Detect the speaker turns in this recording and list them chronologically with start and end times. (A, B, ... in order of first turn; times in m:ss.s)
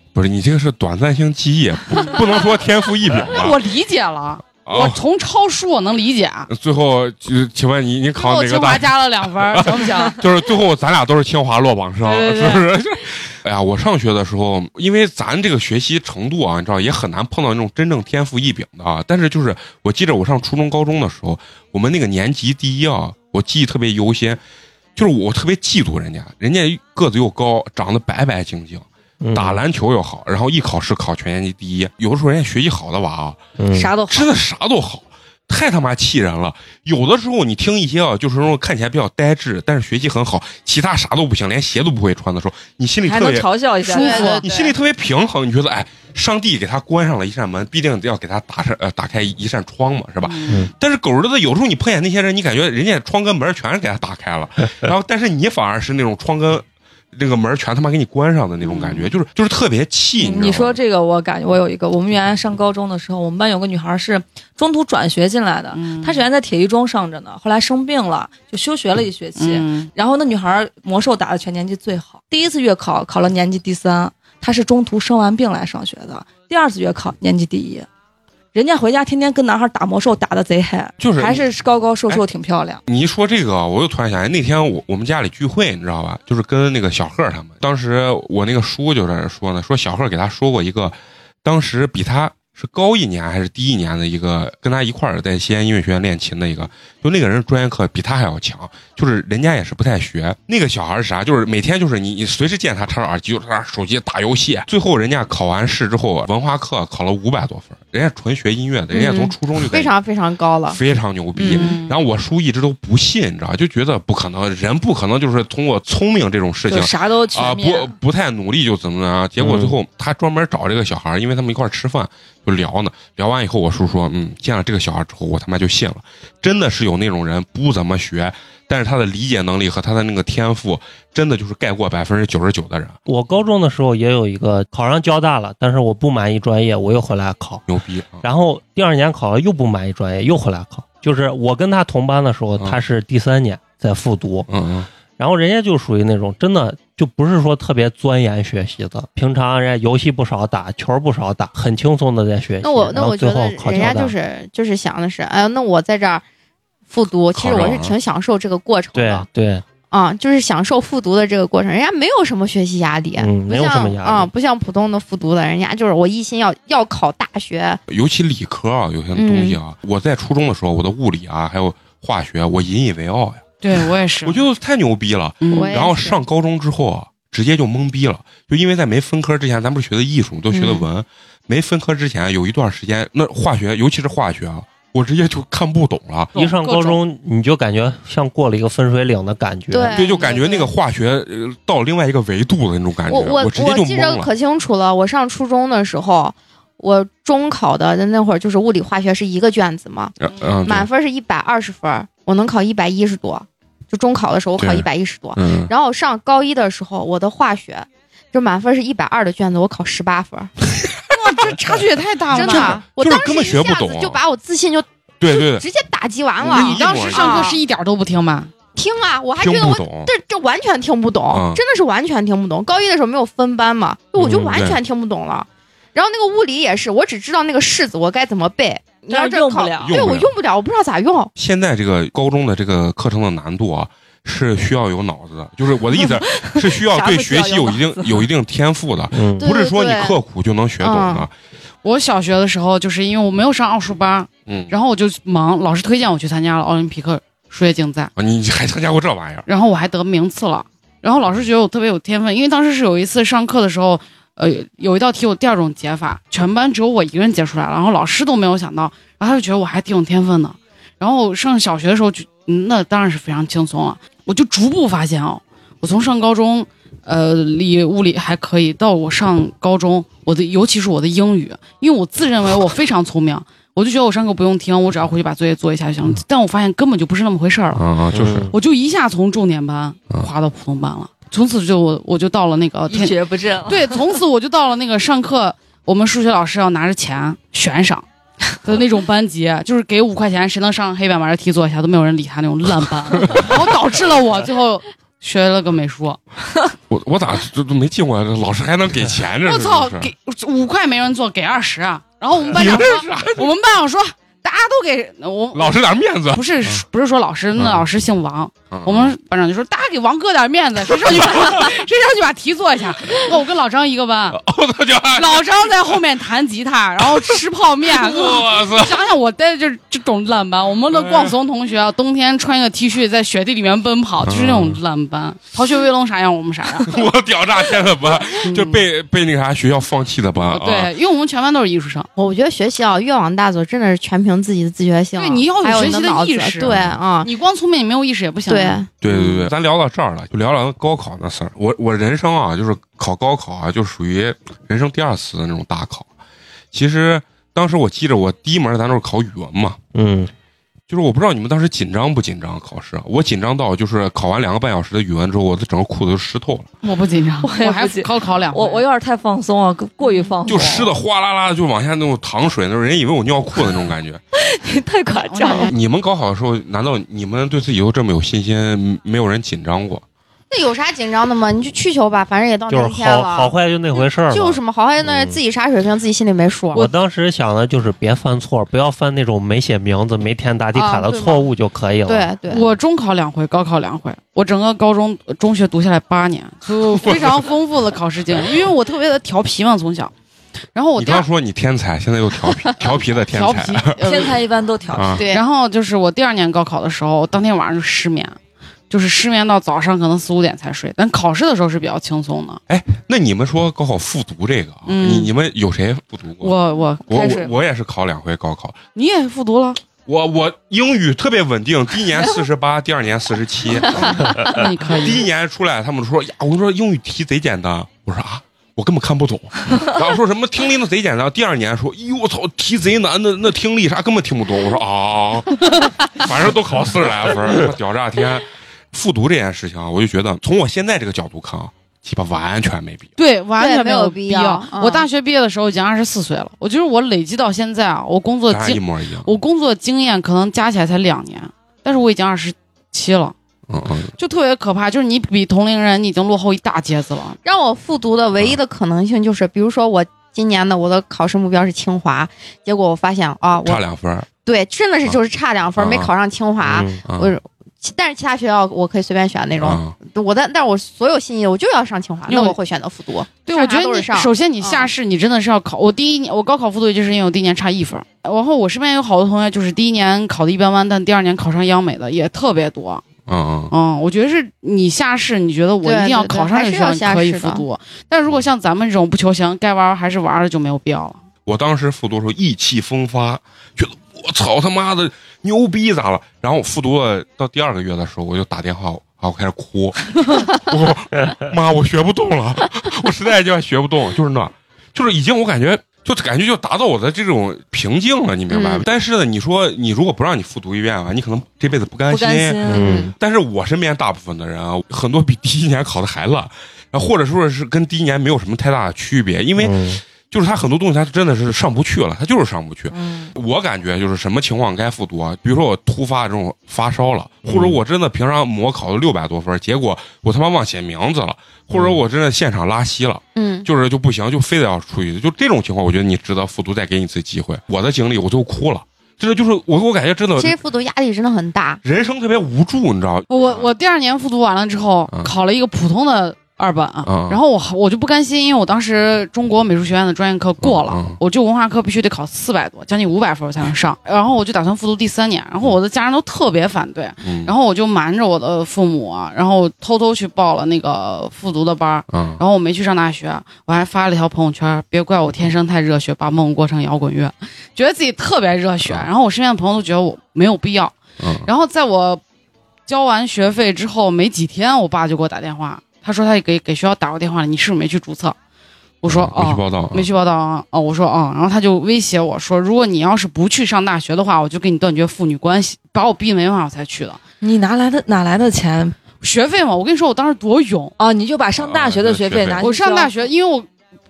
0:00.1-0:03.6 A
0:03.2-0:06.5 B
0:04.5-0:05.0 A
0:06.5-0:24.4 A
0:08.2-0:10.2 B
0:12.1-0:12.6 B
0:25.0-0:33.4 A
0:29.2-0:29.6 C
0:33.6-0:33.9 C
0:33.7-0:34.3 D
0:34.1-0:43.5 A
0:43.0-0:44.4 D
0:43.9-0:44.4 B
0:43.9-0:44.7 E
0:44.4-1:00.8 A
0:50.2-0:50.7 B
0:58.7-0:59.0 B
1:00.2-1:17.9 D
1:05.7-1:06.2 B
1:09.4-1:09.9 B
1:18.5-1:22.8 D
1:21.0-1:21.4 A
1:22.9-1:49.9 A
1:48.9-1:50.8 E
1:50.7-2:13.0 A
1:51.4-1:51.7 E
1:51.5-1:51.9 B
1:56.7-1:57.9 D
1:59.4-1:59.7 C
2:13.1-2:17.6 C
2:17.7-2:18.2 A
2:18.2-2:24.5 C
2:24.5-2:24.9 A
2:25.2-2:34.1 C
2:32.6-2:36.2 E
2:36.9-2:39.2 E
2:37.3-2:37.9 A
2:38.9-2:39.6 C
2:39.9-2:47.8 E
2:43.2-2:44.3 C
2:47.9-3:06.3 A
2:49.1-2:49.6 E
2:53.6-2:54.4 B
2:55.4-2:55.8 B
2:55.5-2:56.2 E
3:00.5-3:00.9 E
3:06.3-3:07.0 B
3:06.4-3:10.0 C
3:09.7-3:10.7 E
3:09.9-3:14.3 A
3:13.1-3:30.5 E
3:20.2-3:20.9 A
3:24.6-3:25.7 A
3:31.1-3:32.8 B
3:32.3-3:37.6 E
3:32.3-3:34.2 A
3:35.2-3:35.6 A
3:36.4-3:37.5 A
3:36.5-3:38.5 B
3:38.7-3:51.3 E
3:39.4-3:40.1 A
3:41.3-3:41.6 A
3:44.2-3:44.8 A
3:49.1-3:50.0 D
3:49.8-3:50.3 A
3:51.4-4:01.3 A
3:56.3-3:58.3 D
3:59.1-3:59.4 C
3:59.4-4:00.2 E
4:00.8-4:01.2 E
4:01.8-4:08.1 B
4:04.5-4:04.7 A
4:08.2-4:09.4 A
4:09.5-4:37.9 B
4:37.7-4:38.5 A
4:38.1-4:38.5 C
4:38.5-4:48.0 B
4:42.9-4:44.2 D
4:48.6-4:56.2 B
4:53.2-4:53.6 A
4:56.9-5:00.1 A
4:59.4-5:14.4 B
5:02.4-5:03.5 A
5:05.5-5:06.8 A
5:07.6-5:07.8 A
5:08.7-5:09.2 A
5:10.9-5:11.7 A
5:14.3-5:15.5 A
5:15.1-5:27.0 B
5:17.9-5:19.1 A
5:20.9-5:21.4 A
5:24.2-5:24.8 A
5:26.8-5:30.9 A
5:28.5-5:28.8 B
5:30.5-5:32.1 B
5:32.2-5:37.3 E
5:35.2-5:38.8 B
5:36.7-5:37.0 A
5:38.5-5:39.5 E
5:39.0-5:46.1 A
5:46.7-5:49.8 A
5:49.9-5:50.3 C
5:50.9-5:56.7 A
5:56.8-5:58.8 B
5:57.4-6:01.0 D
6:00.0-6:00.3 B
6:00.5-6:04.2 A
6:04.3-6:05.7 D
6:05.2-6:05.8 B
6:05.7-6:10.0 A
6:10.5-6:16.9 E
6:12.7-6:15.4 C
6:16.7-6:22.3 C
6:20.7-6:21.5 E
6:22.1-6:22.7 E
6:22.5-6:30.1 B
6:27.0-6:27.3 A
6:30.7-6:31.2 B
6:31.0-6:34.0 A
6:33.3-6:34.4 B
6:34.0-6:35.2 D
6:34.9-6:35.2 A
6:35.2-6:35.4 E
6:35.3-6:38.4 B
6:38.9-6:42.6 B
6:42.7-6:46.5 A
6:44.9-6:45.3 B
6:46.4-6:47.2 B
6:47.1-6:48.8 A
6:47.1-6:47.5 D
6:48.9-6:49.8 B
6:50.0-7:13.1 A
6:54.0-6:55.3 B
7:13.2-7:23.3 B
7:13.6-7:15.1 E
7:18.5-7:19.3 A
7:23.7-7:24.1 A
7:24.2-7:27.4 B
7:27.4-7:33.8 E
7:33.6-7:34.3 A
7:34.4-7:44.9 E
7:35.8-7:36.1 A
7:36.7-7:37.0 C
7:36.8-7:37.3 A
7:39.6-7:40.0 A
7:42.3-7:42.6 B
7:43.4-7:53.0 B
7:53.3-7:53.7 A
7:53.7-8:01.2 B
7:55.8-7:57.6 E
8:01.4-8:50.6 A
8:18.5-8:18.8 E
8:22.1-8:23.0 D
8:22.6-8:23.1 C
8:22.8-8:23.1 E
8:29.6-8:30.0 C
8:33.0-8:33.3 E
8:37.5-8:37.8 C
8:41.7-8:42.0 C
8:43.4-8:43.7 E
8:50.4-8:51.8 E
8:51.8-8:53.7 A
8:53.3-9:22.2 B
8:57.0-8:57.4 A
9:00.6-9:01.2 A
9:07.2-9:07.5 A
9:12.1-9:12.4 A
9:18.8-9:19.1 A
9:21.2-9:21.5 A
9:22.9-9:28.4 B
9:29.0-9:37.2 B
9:29.1-9:30.1 A
9:37.4-9:39.0 D
9:39.2-9:40.9 B
9:41.0-9:43.2 D
9:41.6-9:42.6 A
9:42.6-9:43.7 B